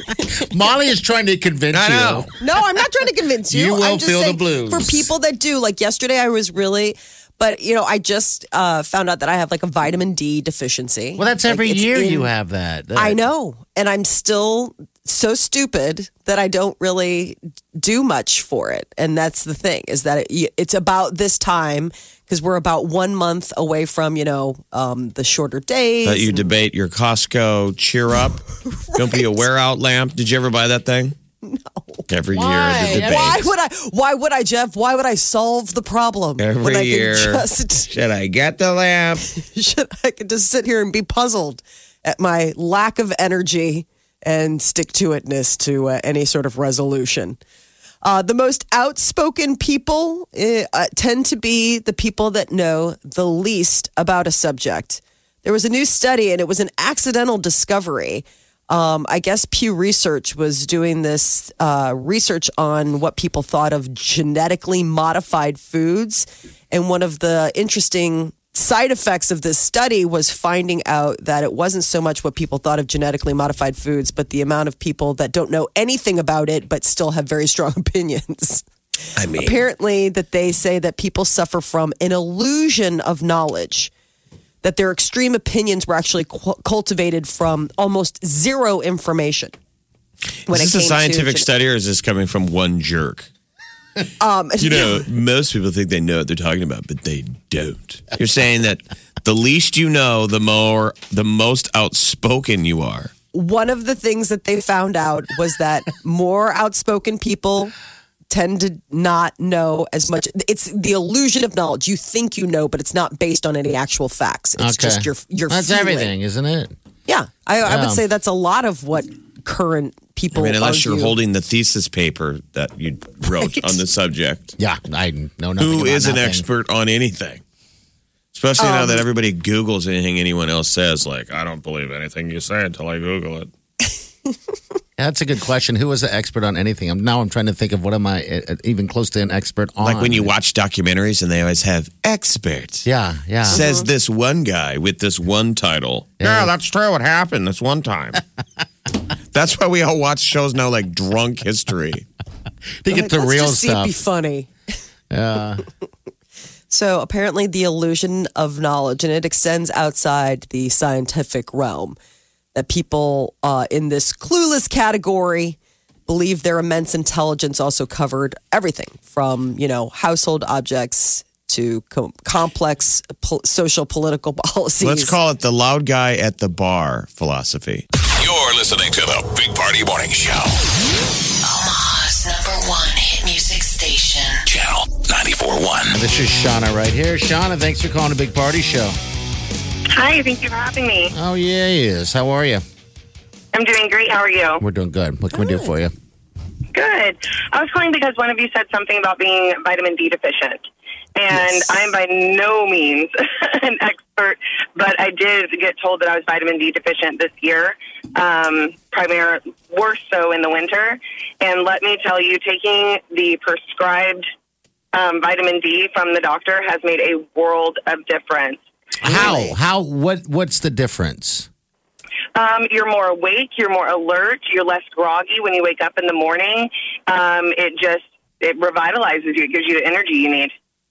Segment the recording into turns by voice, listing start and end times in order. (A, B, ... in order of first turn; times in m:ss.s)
0:00.3-0:02.3 A
0:01.7-0:02.3 B
0:02.4-0:12.3 C
0:03.5-0:05.1 A
0:11.2-0:13.2 A
0:13.0-0:26.4 C
0:26.0-0:31.2 B
0:28.9-0:29.4 C
0:31.4-0:32.0 C
0:32.1-0:33.5 B
0:32.3-0:33.3 A
0:32.8-0:37.9 C
0:36.4-0:39.3 B
0:39.3-0:47.4 C
0:48.0-1:18.6 C
1:19.2-1:19.6 B
1:19.4-1:23.9 C
1:24.6-1:29.5 C
1:30.5-1:33.3 B
1:30.5-1:31.5 C
1:34.2-1:35.0 C
1:34.6-1:43.1 B
1:43.3-1:47.7 C
1:48.3-1:56.1 C
1:54.6-1:56.8 A
1:57.1-2:01.2 C
1:57.6-1:58.0 A
2:00.3-2:04.5 B
2:04.6-2:06.4 A
2:05.6-2:07.4 B
2:08.3-2:13.5 B
2:08.6-2:09.0 C
2:15.0-2:20.3 A
2:19.8-2:22.9 B
2:22.8-2:23.6 A
2:23.5-2:28.2 B
2:23.5-2:23.9 C
2:26.2-2:26.5 A
2:29.3-2:32.1 B
2:32.8-2:34.0 A
2:32.9-2:34.5 C
2:35.1-2:35.6 A
2:36.7-2:42.0 C
2:42.6-2:55.2 C
2:54.8-2:57.8 B
2:58.2-3:00.6 D
3:01.4-3:04.4 E
3:04.5-3:06.0 D
3:05.9-3:09.0 A
3:09.9-3:11.1 F
3:11.1-3:12.6 A
3:13.5-3:14.6 F
3:14.6-3:15.9 A
3:16.7-3:20.6 F
3:21.2-3:34.3 F
3:34.9-3:38.6 F
3:39.0-3:41.5 A
3:39.0-3:39.5 C
3:42.4-3:50.5 F